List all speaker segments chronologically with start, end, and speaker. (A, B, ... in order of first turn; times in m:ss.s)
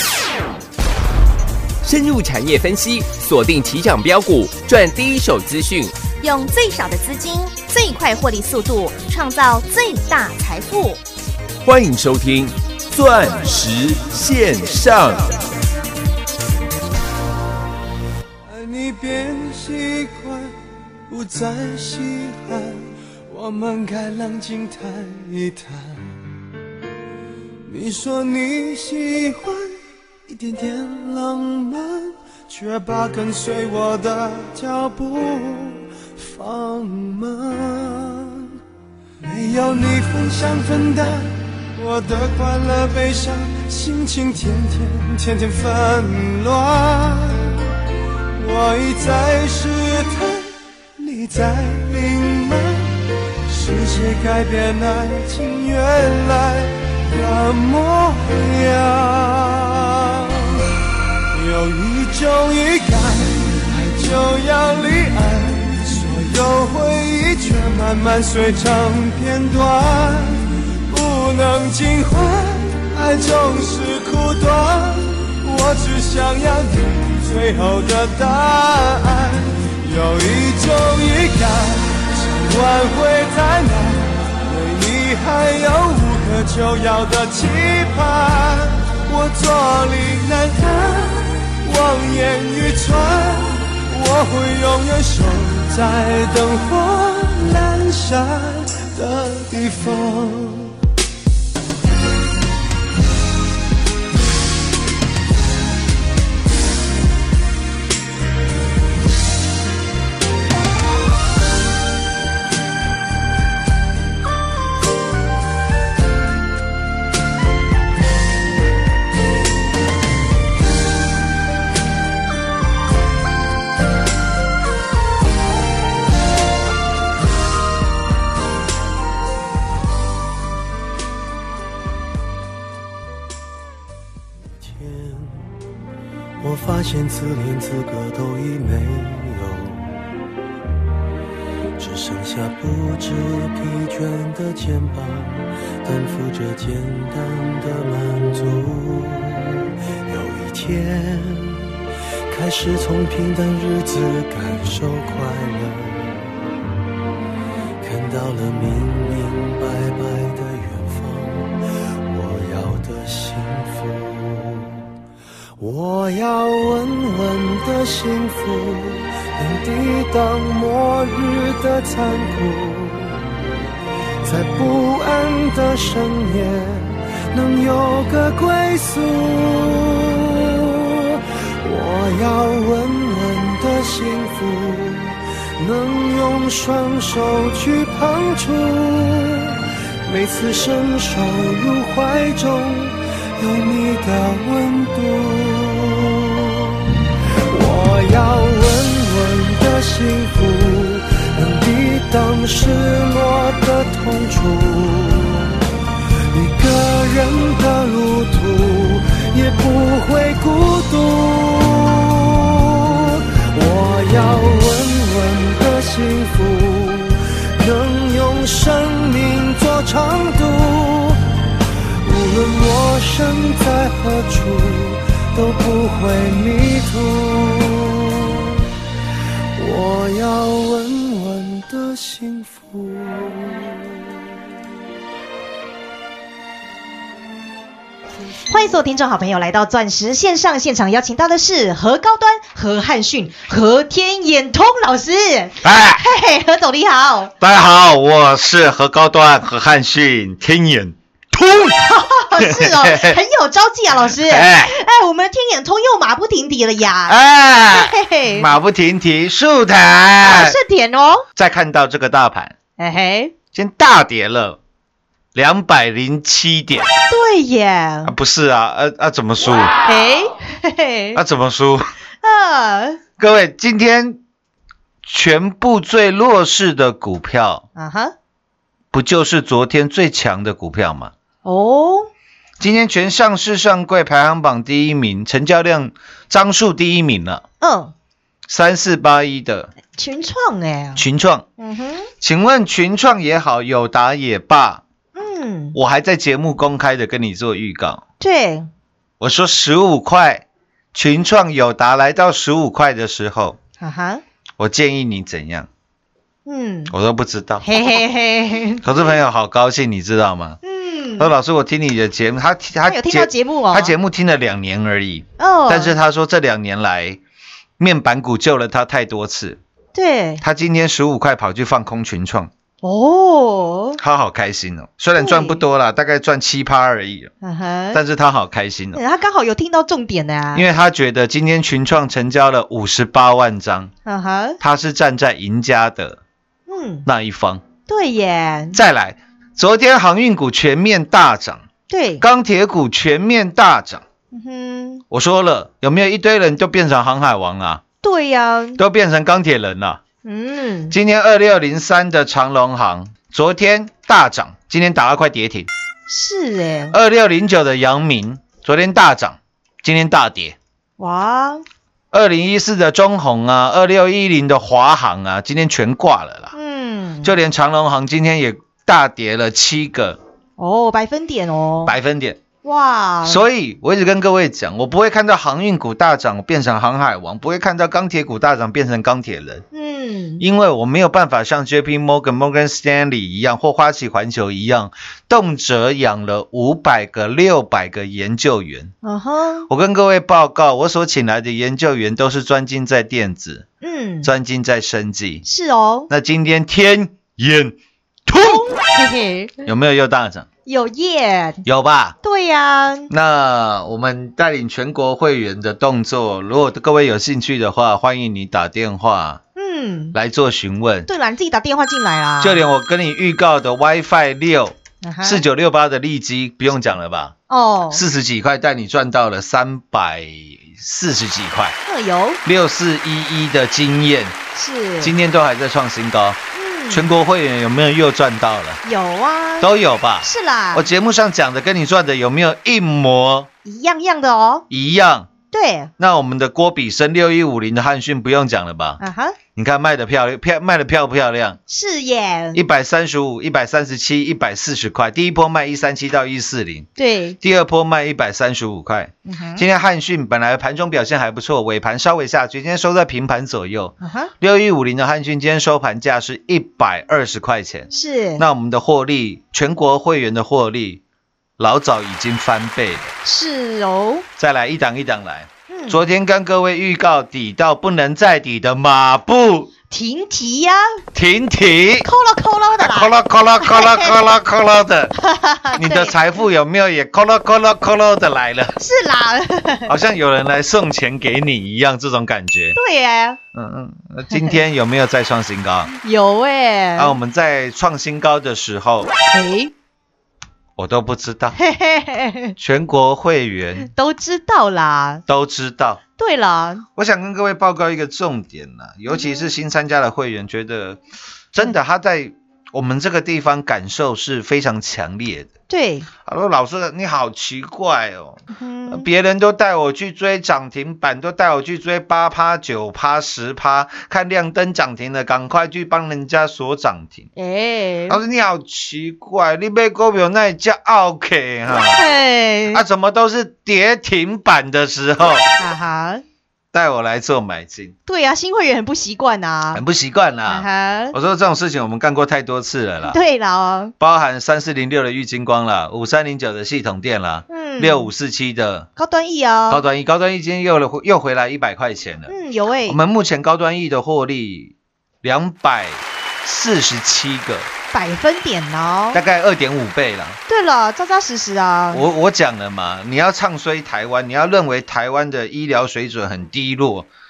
0:01.8-0:06.0 A
0:06.1-0:11.0 B
0:11.6-0:15.4 A
0:18.5-0:20.5 C
0:21.1-0:26.2 C
0:27.7-0:38.5 C
0:39.2-0:47.7 C
0:48.4-1:00.6 C
1:01.3-1:40.8 C
2:14.6-2:15.6 C
2:16.4-2:20.0 C
2:21.8-2:31.7 C
2:32.3-2:36.3 C
2:37.8-2:44.8 C
2:45.6-2:53.3 C
2:54.2-3:16.9 C
3:17.5-3:25.6 C
3:26.3-3:41.2 C
3:42.0-3:48.6 C
3:49.6-3:54.1 C
3:58.5-4:07.3 D
4:05.6-4:06.0 E
4:07.4-4:11.8 E
4:11.8-4:17.2 D
4:12.4-4:13.2 E
4:14.1-4:14.8 E
4:17.1-4:20.6 E
4:17.7-4:18.5 D
4:20.3-4:21.2 D
4:21.4-4:22.6 E
4:22.8-4:23.3 D
4:23.5-4:24.6 E
4:25.3-4:26.9 E
4:27.1-4:28.1 D
4:28.0-4:29.7 E
4:29.8-4:31.2 D
4:31.2-4:31.9 E
4:32.2-4:33.0 D
4:33.2-4:34.2 E
4:35.0-4:37.7 E
4:37.8-4:38.1 D
4:38.9-4:41.1 E
4:41.4-4:42.1 D
4:42.6-4:47.4 E
4:47.6-4:47.9 D
4:48.5-4:49.7 E
4:50.0-4:51.0 D
4:51.0-4:51.5 E
4:51.6-4:52.1 D
4:52.2-4:54.8 E
4:55.2-4:55.8 D
4:55.7-4:58.0 E
4:58.2-4:58.7 D
4:59.2-5:03.6 E
5:03.8-5:04.2 D
5:04.6-5:05.7 E
5:06.5-5:06.9 D
5:06.9-5:08.0 E
5:07.6-5:08.8 D
5:08.8-5:10.6 E
5:10.6-5:11.3 D
5:11.2-5:17.2 E
5:12.9-5:14.0 D
5:15.4-5:16.0 D
5:17.8-5:19.6 E
5:19.9-5:20.4 D
5:20.4-5:22.5 E
5:22.8-5:24.0 D
5:24.0-5:27.3 E
5:25.2-5:25.6 D
5:27.4-5:28.0 D
5:27.9-5:29.0 E
5:28.9-5:30.7 D
5:30.5-5:33.9 E
5:34.0-5:34.6 D
5:34.6-5:36.2 E
5:36.7-5:37.1 D
5:37.1-5:37.6 E
5:37.9-5:38.8 D
5:38.7-5:41.6 E
5:41.9-5:42.2 D
5:42.2-5:44.0 E
5:44.3-5:45.0 D
5:45.1-5:47.8 E
5:48.0-5:48.8 D
5:48.8-5:50.0 E
5:50.2-5:51.0 D
5:50.9-5:55.7 E
5:56.1-5:57.0 D
5:56.9-6:00.6 E
6:01.0-6:01.6 D
6:02.1-6:06.5 E
6:06.5-6:07.3 D
6:07.2-6:10.2 E
6:10.6-6:12.0 D
6:11.9-6:12.4 E
6:12.6-6:13.4 D
6:13.2-6:19.6 E
6:19.7-6:20.4 D
6:20.4-6:28.9 E
6:29.0-6:29.7 D
6:29.7-6:33.7 E
6:33.8-6:34.3 D
6:34.2-6:35.4 E
6:35.4-6:36.1 D
6:36.1-6:37.8 E
6:38.3-6:38.7 E
6:38.4-6:39.6 D
6:39.6-6:40.5 E
6:40.7-6:41.6 D
6:41.6-6:42.2 E
6:42.2-6:43.1 D
6:43.1-6:49.4 E
6:49.6-6:50.2 D
6:50.1-6:51.1 E
6:51.1-6:52.6 D
6:52.4-6:57.4 E
6:55.0-6:55.4 D
6:57.5-6:58.0 D
6:57.9-7:01.8 E
7:01.9-7:02.4 D
7:02.4-7:04.4 E
7:04.6-7:05.1 D
7:05.0-7:08.8 E
7:06.5-7:07.1 D
7:08.8-7:09.7 D
7:09.6-7:13.5 E
7:10.2-7:10.9 D
7:13.6-7:14.6 D
7:14.7-7:15.3 E
7:15.5-7:15.9 D
7:16.0-7:19.0 E
7:19.0-7:19.4 D
7:19.6-7:21.6 E
7:21.7-7:22.6 D
7:22.5-7:26.9 E
7:27.0-7:27.4 D
7:27.4-7:41.0 E
7:29.2-7:29.6 D
7:34.0-7:34.3 D
7:37.9-7:38.4 D
7:41.6-7:43.1 E
7:43.2-7:44.3 D
7:44.4-7:49.7 E
7:45.7-7:46.0 D
7:49.9-7:50.9 D
7:51.1-7:52.1 E
7:52.0-7:54.2 D
7:52.8-7:55.2 E
7:55.2-7:56.2 D
7:55.7-7:58.8 E
7:58.8-7:59.9 D
7:59.9-8:02.8 E
8:02.8-8:03.4 D
8:03.5-8:05.9 E
8:04.3-8:04.6 D
8:06.0-8:07.2 D
8:07.0-8:09.1 E
8:09.3-8:09.7 D
8:10.8-8:11.6 E
8:11.5-8:12.6 D
8:12.6-8:13.9 E
8:13.8-8:15.2 D
8:15.3-8:16.0 E
8:16.2-8:16.8 D
8:17.0-8:21.0 E
8:19.1-8:19.5 D
8:21.5-8:25.5 E
8:25.7-8:26.1 D
8:26.2-8:37.3 E
8:28.5-8:29.1 D
8:37.4-8:38.2 D
8:38.1-8:42.0 E
8:41.7-8:42.8 D
8:42.7-8:45.5 E
8:45.6-8:46.2 D
8:46.7-8:47.9 E
8:48.1-8:49.8 D
8:49.7-8:53.2 E
8:50.5-8:51.2 D
8:53.0-8:53.9 D
8:54.0-8:58.9 E
8:57.5-8:58.1 D
8:59.0-8:59.8 D
8:59.7-9:02.3 E
9:02.3-9:03.0 D
9:02.9-9:07.7 E
9:07.9-9:09.2 D
9:09.1-9:10.4 E
9:10.5-9:12.0 D
9:11.9-9:17.1 E